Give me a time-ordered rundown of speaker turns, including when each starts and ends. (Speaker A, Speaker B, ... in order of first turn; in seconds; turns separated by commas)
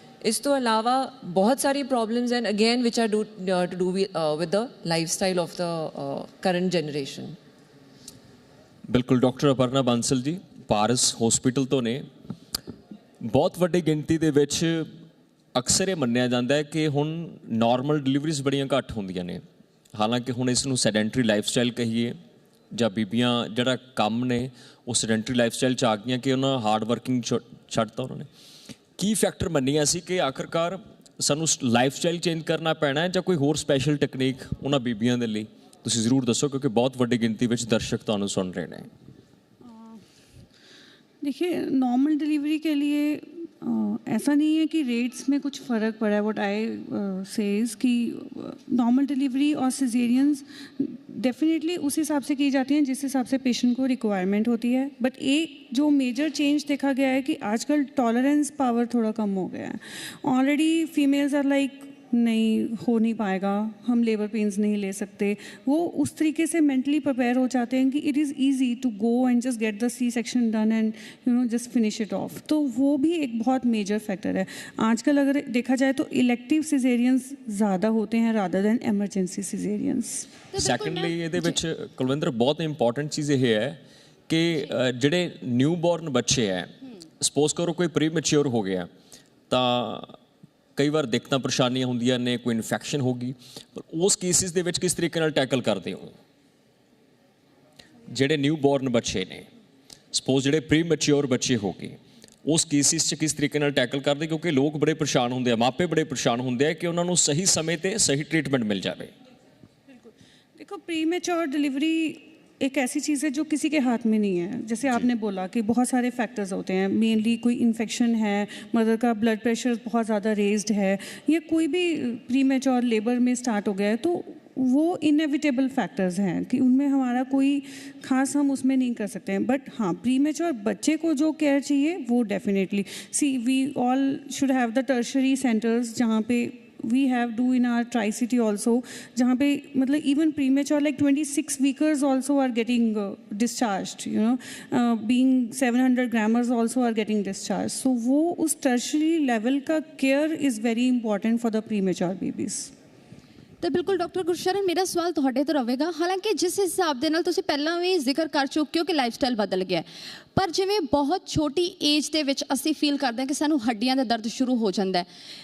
Speaker A: 0.2-7.4, Speaker B: 8.9-12.1, Speaker B: 13.2-14.9, Speaker B: 15.5-19.4, Speaker B: 19.9-22.2, Speaker B: 22.7-28.3, Speaker B: 29.0-38.9, Speaker C: 39.6-40.0, Speaker C: 41.2-80.3, Speaker D: 80.5-81.6, Speaker B: 80.5-88.9, Speaker B: 89.5-90.2, Speaker B: 90.8-96.1, Speaker B: 98.1-99.5, Speaker B: 100.1-109.1, Speaker C: 110.6-152.7, Speaker D: 153.6-165.1